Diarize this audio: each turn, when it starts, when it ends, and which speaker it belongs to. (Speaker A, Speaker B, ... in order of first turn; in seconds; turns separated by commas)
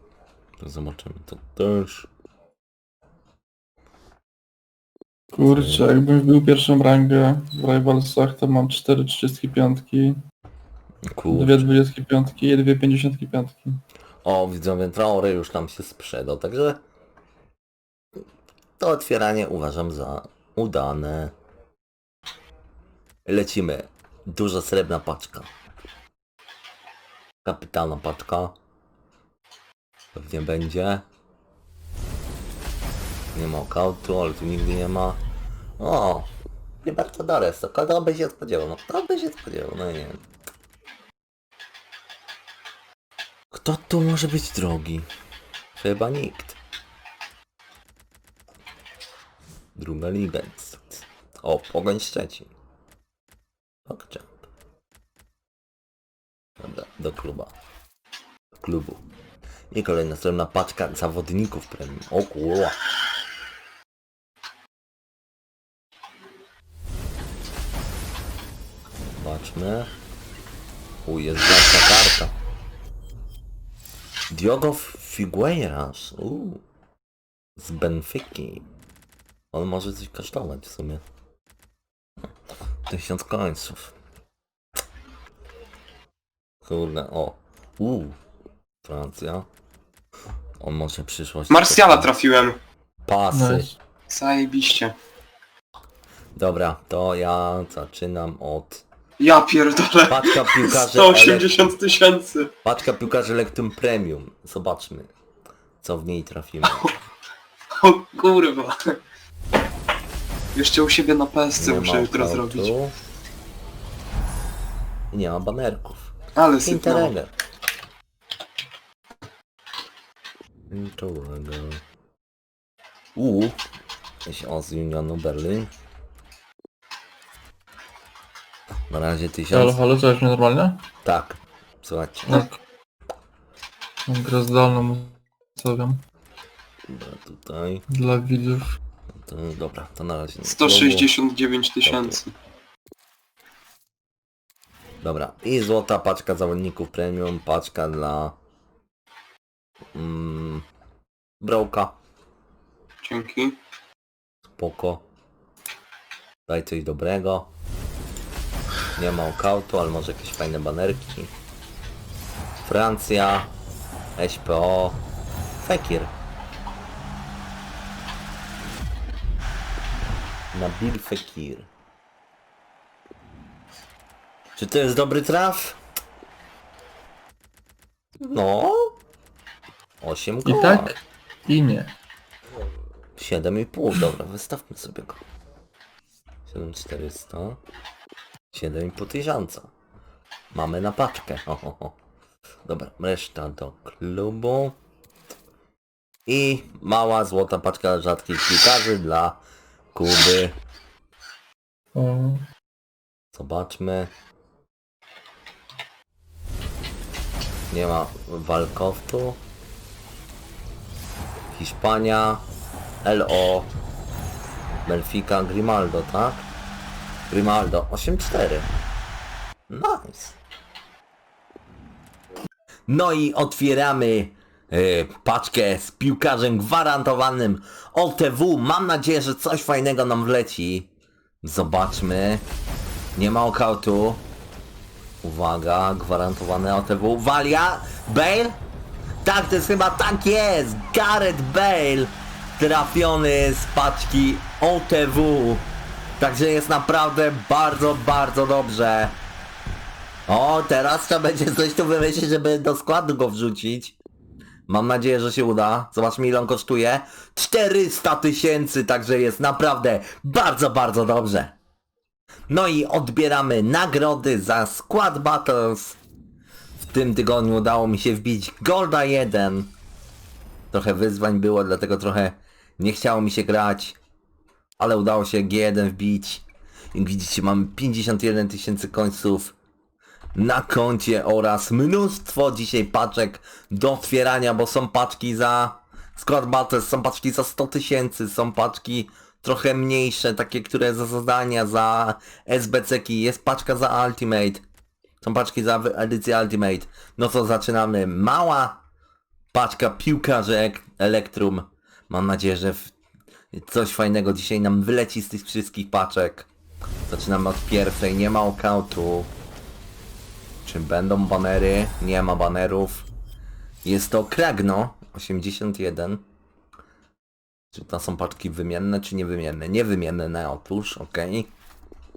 Speaker A: 0.6-2.1, Speaker B: 5.3-10.2, Speaker A: 5.5-5.9, Speaker A: 11.1-11.7, Speaker B: 11.3-13.8, Speaker A: 14.2-16.8, Speaker A: 18.8-21.3, Speaker A: 23.3-25.5, Speaker A: 27.4-28.6, Speaker A: 30.1-31.1, Speaker A: 33.3-35.2, Speaker A: 35.8-36.3, Speaker A: 36.8-40.2, Speaker A: 43.5-45.1, Speaker A: 45.8-46.6, Speaker A: 49.8-52.5, Speaker A: 53.9-54.5, Speaker A: 56.6-57.5, Speaker A: 58.5-59.0, Speaker A: 59.7-62.8, Speaker A: 69.2-69.9, Speaker A: 71.1-72.3, Speaker A: 74.3-76.6, Speaker A: 77.6-78.7, Speaker A: 79.5-81.0, Speaker A: 82.9-83.9, Speaker A: 86.6-88.2, Speaker A: 88.8-89.5, Speaker A: 90.6-92.1, Speaker C: 91.5-92.6, Speaker A: 93.1-93.7, Speaker B: 93.3-93.8, Speaker C: 94.1-95.0, Speaker A: 96.3-98.8, Speaker C: 99.2-102.5, Speaker A: 100.1-101.6, Speaker A: 102.6-105.1, Speaker A: 105.8-106.9, Speaker C: 107.8-109.0, Speaker C: 110.5-112.7, Speaker A: 111.6-112.9, Speaker A: 115.1-117.3, Speaker C: 116.4-117.1, Speaker A: 120.7-121.8, Speaker A: 123.2-123.6, Speaker A: 124.3-125.7, Speaker A: 128.9-129.8, Speaker B: 129.5-130.8, Speaker A: 131.1-132.5, Speaker B: 132.3-132.6, Speaker B: 134.1-136.0, Speaker A: 136.9-137.8, Speaker B: 137.9-138.7, Speaker A: 139.2-141.1, Speaker C: 140.4-142.3, Speaker A: 141.8-142.2, Speaker A: 145.0-148.3, Speaker A: 149.9-150.7, Speaker A: 151.4-152.0, Speaker C: 153.0-153.6, Speaker A: 154.5-155.1, Speaker A: 156.5-157.5, Speaker A: 159.0-161.3, Speaker A: 162.6-163.5, Speaker A: 164.2-165.0, Speaker A: 165.6-166.1, Speaker A: 170.5-171.7, Speaker A: 174.6-175.8, Speaker A: 178.2-178.9, Speaker A: 180.0-180.9, Speaker B: 180.4-181.9, Speaker A: 183.2-185.2, Speaker A: 186.5-187.6, Speaker A: 188.5-189.7, Speaker A: 190.5-191.9, Speaker A: 192.7-194.8, Speaker A: 196.3-199.4, Speaker A: 199.9-200.6, Speaker B: 202.0-202.4, Speaker A: 203.3-204.1, Speaker A: 207.7-209.4, Speaker A: 211.5-212.4, Speaker A: 213.0-213.7, Speaker A: 214.9-216.5, Speaker A: 217.3-218.7, Speaker A: 219.7-220.4, Speaker A: 222.9-230.9, Speaker A: 231.4-232.4, Speaker A: 233.2-234.2, Speaker A: 235.2-238.6, Speaker A: 239.2-245.7, Speaker A: 246.2-249.2, Speaker A: 250.3-254.0, Speaker A: 254.7-261.6, Speaker A: 262.5-266.0, Speaker A: 266.8-269.7, Speaker A: 270.7-274.0, Speaker A: 274.8-279.6, Speaker A: 280.4-294.6, Speaker A: 295.2-298.8, Speaker A: 299.5-302.9, Speaker A: 303.5-306.5, Speaker A: 307.1-309.3, Speaker A: 310.6-313.1, Speaker A: 313.8-316.2, Speaker A: 317.7-321.5